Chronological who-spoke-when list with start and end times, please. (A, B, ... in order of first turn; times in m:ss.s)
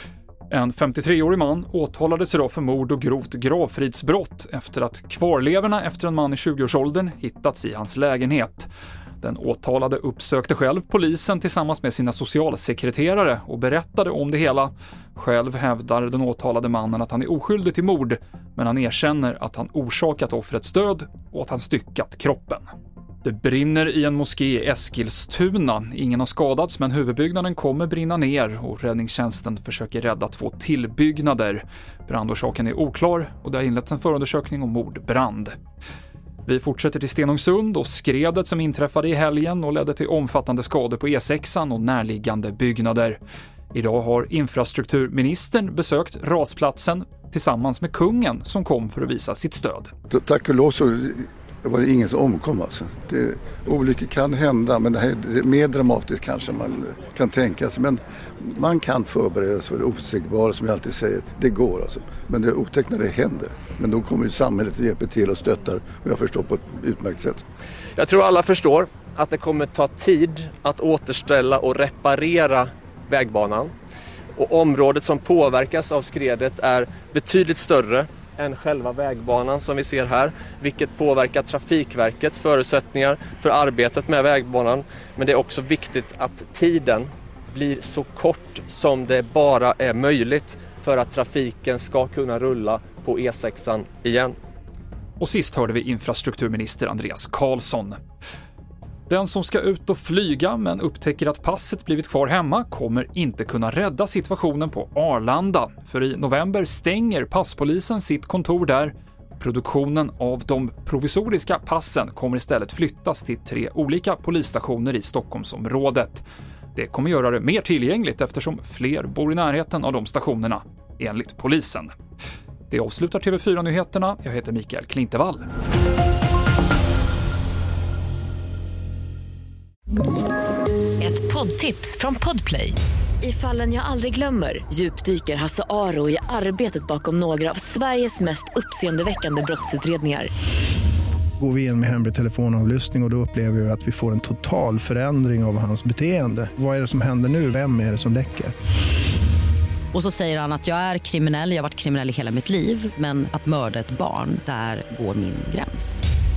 0:00.5-0:08.7 A
0:09.2-0:22.7 A
0:23.2-0:35.6 A
0:36.4-0:43.2 A
0:43.7-0:49.9 A
0:50.1-1:07.4 B
1:08.0-1:13.7 C
1:14.4-1:34.3 C
1:35.2-1:38.0 A
1:39.1-2:01.9 A
2:02.7-2:05.4 A
2:11.0-2:20.3 D
2:21.4-2:28.5 E
2:29.9-2:36.0 F